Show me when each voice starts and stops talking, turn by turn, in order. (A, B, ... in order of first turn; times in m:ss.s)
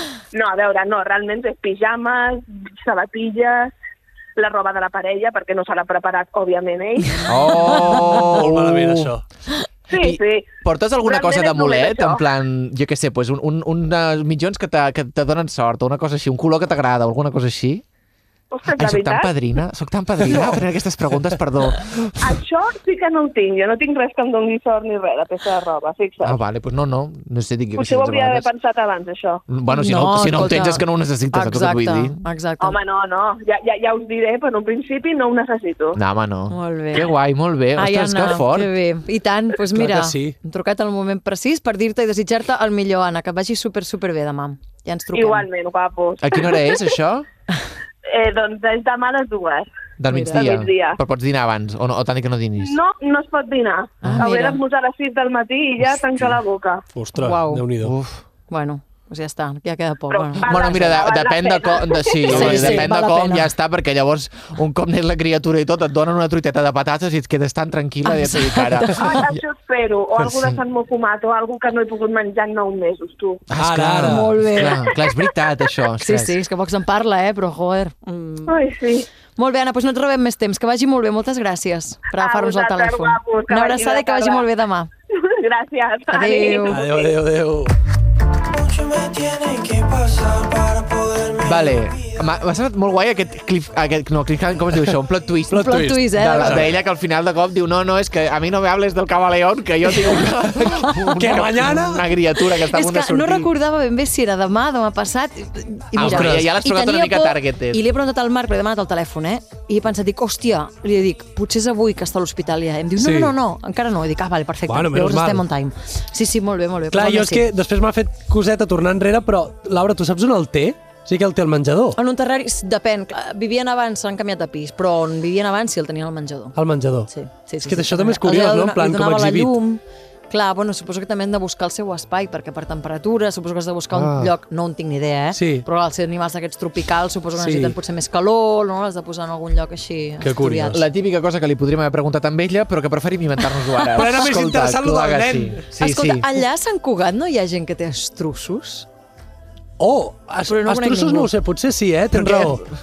0:00.3-0:03.8 A
0:04.4-0:07.3 A
0:07.3-0:09.1 B
0:07.7-0:08.2 C
0:08.3-0:09.2 D
0:09.9-0:12.2 A
0:09.9-0:17.8 B
0:18.5-0:19.4 A
0:18.7-0:22.4 B
0:22.2-0:26.4 A
0:26.2-0:28.5 B
0:27.8-0:29.4 A
0:29.5-0:32.2 B
0:29.7-0:32.8 C
0:32.6-0:36.0 A
0:35.9-0:38.7 B
0:36.5-0:37.1 C
0:37.8-0:45.5 C
0:39.7-0:40.4 D
0:45.1-0:47.0 A
0:46.2-0:47.3 B
0:48.1-0:49.7 A
0:50.0-0:52.8 B
0:50.1-0:50.6 C
0:50.3-0:51.0 A
0:52.6-0:56.8 A
0:54.1-0:54.6 C
0:56.9-0:58.0 D
0:57.2-0:57.7 C
0:57.8-0:58.2 B
0:58.5-1:01.1 C
1:00.1-1:02.4 A
1:00.4-1:09.4 B
1:02.3-1:03.5 C
1:02.3-1:02.9 D
1:08.0-1:09.3 C
1:09.0-1:13.4 A
1:13.5-1:16.4 B
1:13.6-1:14.4 D
1:14.1-1:14.9 C
1:16.0-1:18.6 C
1:18.5-1:19.1 A
1:19.4-1:24.9 C
1:22.1-1:24.5 A
1:25.2-1:27.1 A
1:26.1-1:26.9 C
1:26.7-1:27.8 D
1:29.1-1:30.5 D
1:31.4-1:43.5 B
1:35.5-1:36.7 D
1:35.6-1:36.6 C
1:40.8-1:42.1 D
1:42.7-1:57.5 C
1:46.0-1:47.8 B
1:46.0-1:46.5 D
1:53.0-1:53.4 D
1:54.7-1:55.4 D
1:56.9-2:02.0 D
2:02.0-2:06.6 C
2:06.6-2:07.1 D
2:07.1-2:20.8 C
2:07.6-2:09.5 D
2:13.9-2:14.3 D
2:15.3-2:15.6 D
2:17.4-2:17.8 D
2:20.2-2:20.8 D
2:20.7-2:26.3 B
2:23.9-2:25.6 D
2:25.8-2:28.9 C
2:29.8-2:32.7 D
2:30.5-2:31.3 C
2:32.1-2:32.6 B